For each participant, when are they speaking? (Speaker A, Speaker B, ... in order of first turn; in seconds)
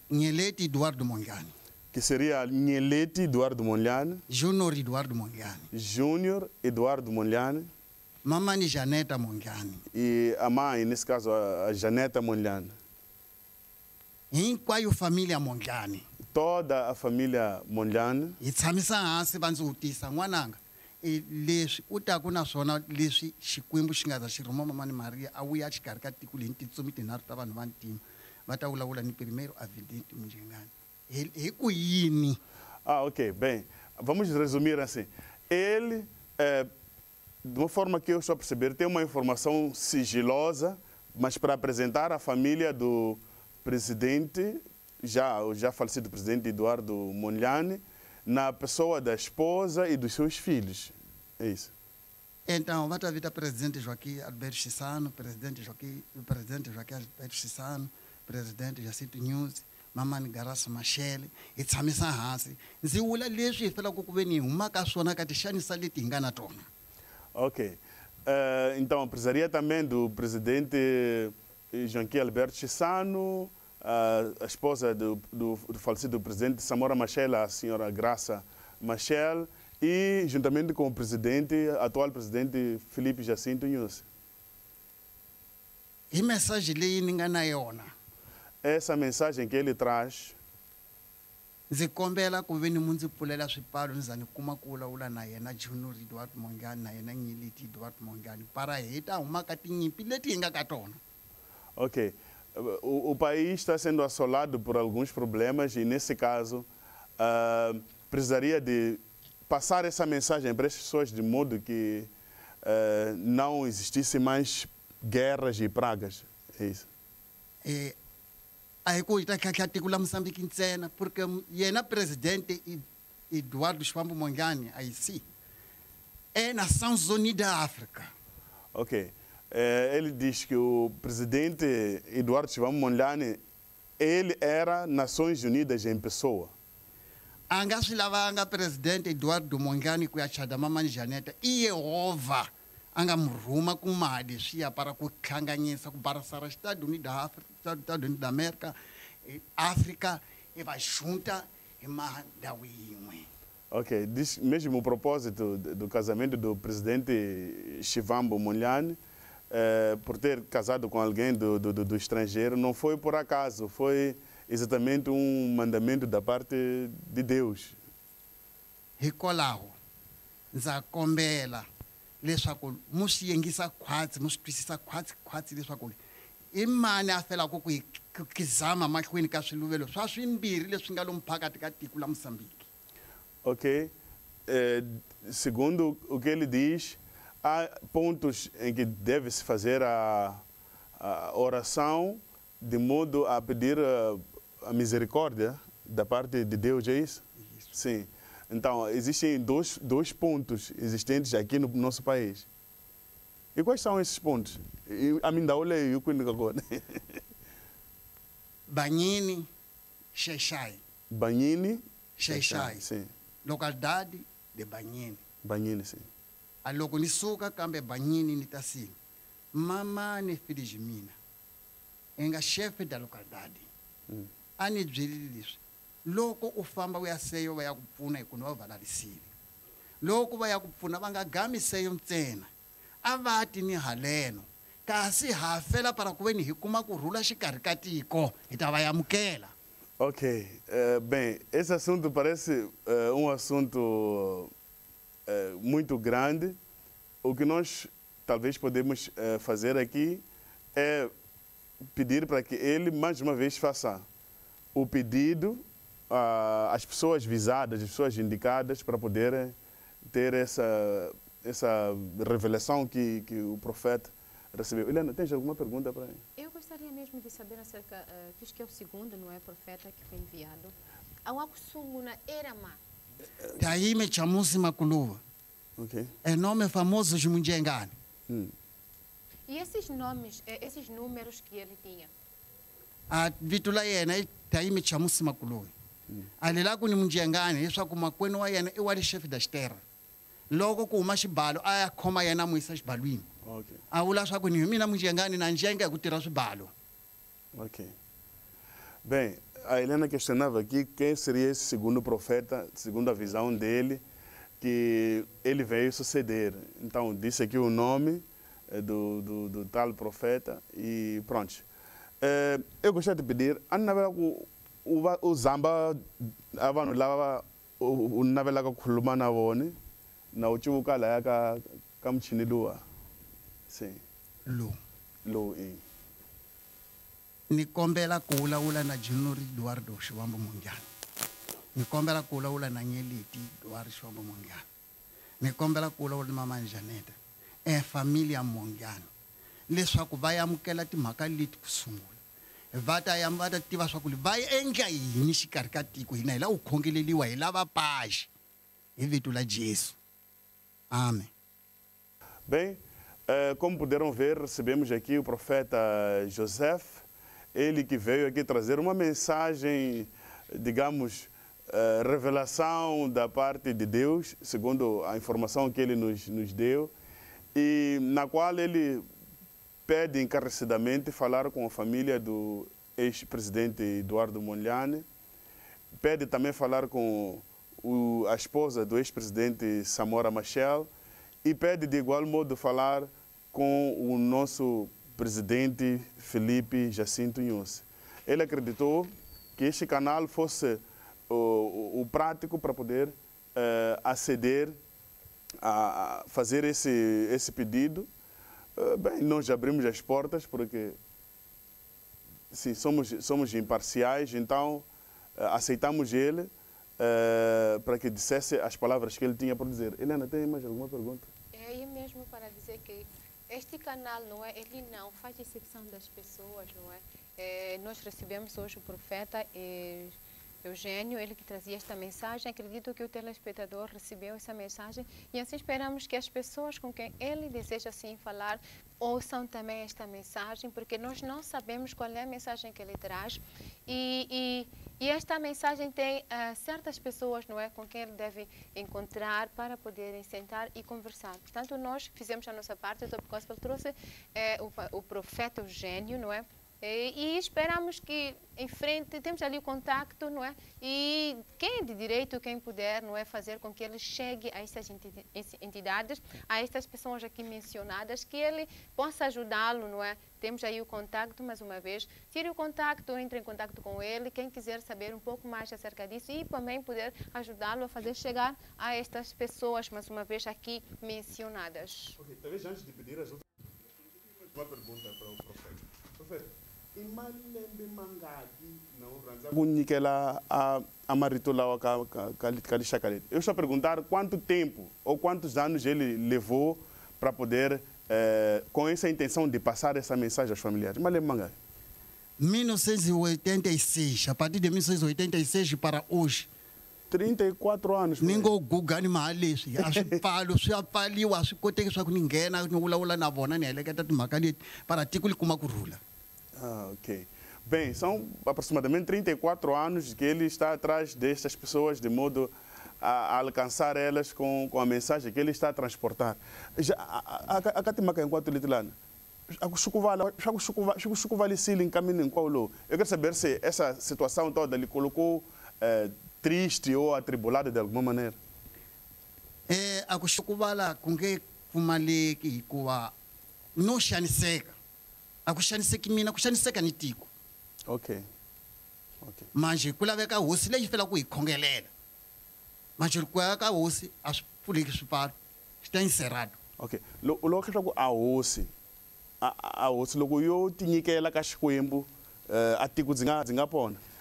Speaker A: 0.1-1.5, 4.3-5.7, 8.2-9.8, 14.3-16.1, 18.4-32.4, 52.5-66.7, 86.1-87.9, 91.7-101.0, 117.6-118.0, 118.9-125.2, 126.3-128.1, 137.5-148.7, 149.2-153.3, 169.0-169.8, 170.5-171.7, 172.2-176.0, 176.5-182.7, 197.4-197.7, 208.7-209.5, 210.1-210.8, 212.2-212.9, 213.4-215.2, 216.6-218.9, 219.5-221.2, 222.2-223.7, 224.6-229.3, 230.0-232.5, 233.0-239.5, 273.6-275.2, 276.2-277.9, 283.1-285.7, 286.4-289.8, 290.5-293.3, 293.9-296.7, 324.4-324.8, 327.5-330.9, 331.7-334.7, 335.4-339.1, 339.7-342.2, 342.7-348.3, 349.0-350.0, 350.9-351.3, 492.4-496.5, 498.2-506.0, 529.7-533.1, 533.8-534.8, 535.5-537.3, 539.5-541.9, 543.0-546.6
Speaker B: 1.9-4.2, 5.7-7.7, 9.9-12.7, 16.3-18.4, 32.9-36.7, 37.5-51.7, 67.3-84.0, 88.6-90.4, 101.8-106.7, 107.2-112.1, 112.6-116.9, 128.7-133.4, 134.0-136.5, 153.7-159.0, 159.5-167.8, 183.4-183.9, 184.5-190.4, 191.0-197.2, 197.7-202.5, 203.6-207.2, 211.1-213.1, 215.4-216.1, 240.0-244.5, 245.3-246.6, 247.2-250.2, 250.8-251.1, 251.9-254.1, 254.8-259.6, 260.1-266.2, 275.8-276.1, 293.4-293.8, 297.5-297.9, 299.1-304.0, 304.6-311.6, 312.2-319.8, 320.3-322.8, 323.7-324.0, 325.2-325.8, 352.5-366.9, 367.6-369.1, 369.9-375.1, 376.0-380.9, 381.4-394.8, 395.6-398.1, 398.8-401.0, 402.5-411.3, 472.2-473.4, 474.0-491.6, 497.1-498.5, 499.8-500.1, 506.6-518.9, 519.5-528.4, 537.9-538.2, 539.2-539.5, 546.8-548.7, 549.4-554.0
Speaker C: 266.4-270.7, 271.2-272.8, 279.5-282.1, 411.5-472.2